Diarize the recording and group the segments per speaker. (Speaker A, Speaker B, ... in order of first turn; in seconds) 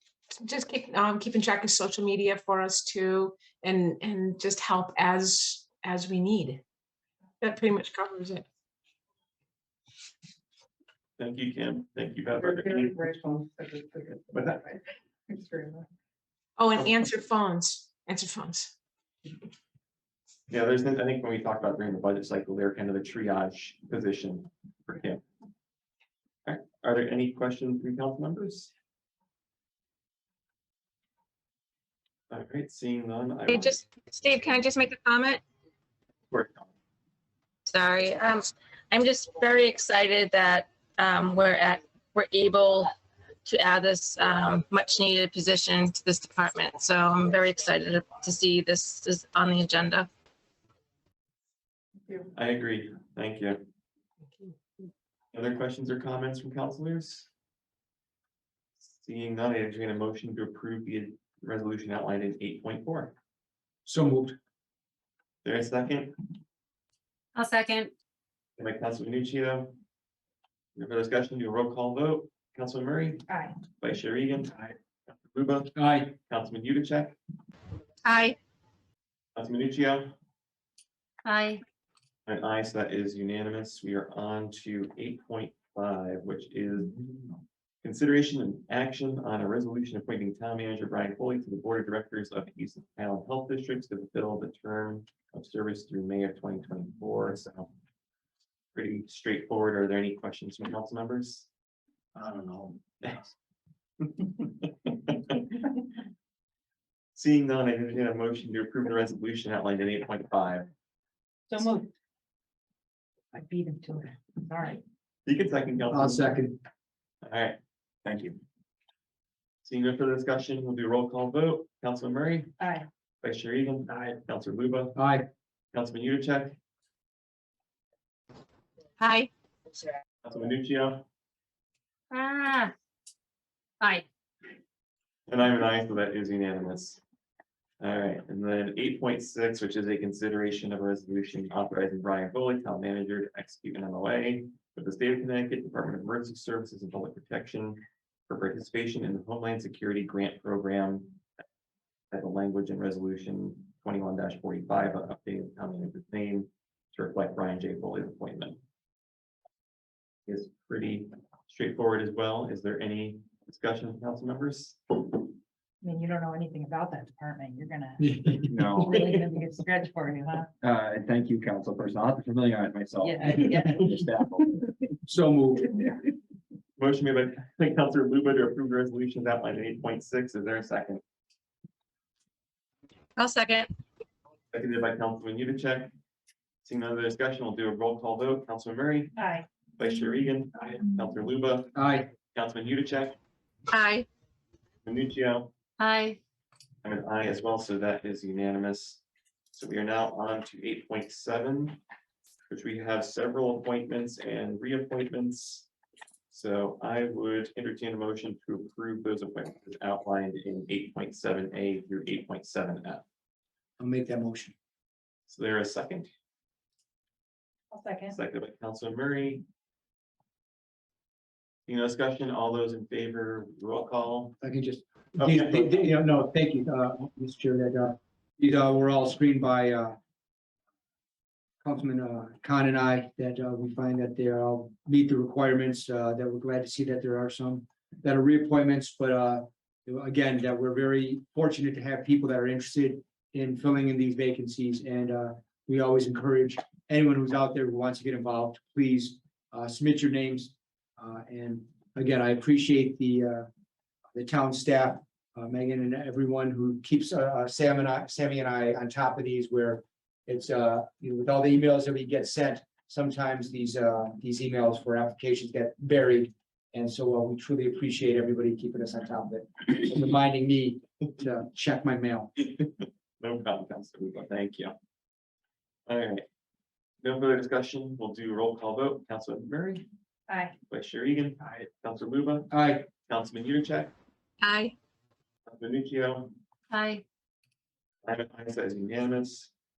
Speaker A: 0.3-6.6, 7.4-8.4, 16.6-18.7
Speaker B: 11.2-12.9, 14.3-14.6, 20.5-25.2, 26.4-28.7, 32.3-33.9, 36.3-36.7, 52.3-53.6, 55.3-57.3, 58.8-63.1, 65.4-66.2, 68.6-69.8, 70.8-73.2, 73.8-75.7, 76.3-77.2, 79.3-80.1, 82.3-86.9, 87.8-97.7, 98.7-101.5, 103.0-103.3, 104.0-105.4, 107.1-110.7, 115.2-116.4, 117.2-117.6, 119.6-122.5, 123.2-125.0, 125.7-126.6, 130.2-131.0, 135.3-137.0, 137.8-151.2, 152.1-158.6, 160.3-165.2, 168.9-169.2, 176.8-181.0, 184.5-185.9, 186.6-189.1, 189.8-191.8, 192.3-193.2, 194.8-195.5, 196.8-199.0, 199.5-201.8, 202.5-205.7, 206.3-213.0, 215.3-216.1, 218.1-219.4, 221.7-224.4, 225.2-225.9, 273.2-274.7, 275.9-276.2, 277.0-279.9, 280.7-282.5, 283.0-283.9, 285.5-286.3, 288.0-289.5
Speaker C: 12.4-15.8, 73.3-73.5, 111.5-111.9, 113.3-114.8, 122.6-122.8, 165.8-170.5, 173.0-173.9, 189.2-189.4, 217.7-218.2, 280.3-280.5
Speaker D: 33.5-35.4, 37.7-42.9, 43.4-50.1, 78.0-78.3, 129.0-129.3, 183.2-183.7, 193.7-194.1, 284.4-284.7
Speaker E: 63.8-64.3, 75.7-76.2, 115.9-116.6, 124.9-125.2, 168.0-168.5, 175.0-175.8, 191.7-192.1, 213.8-214.5, 224.4-229.9, 231.6-253.5, 254.1-272.3, 282.5-282.9
Speaker F: 67.3-67.9, 81.2-81.6, 132.1-132.7, 195.8-196.2, 286.7-287.0
Speaker G: 118.0-118.4, 168.5-169.0, 170.6-174.6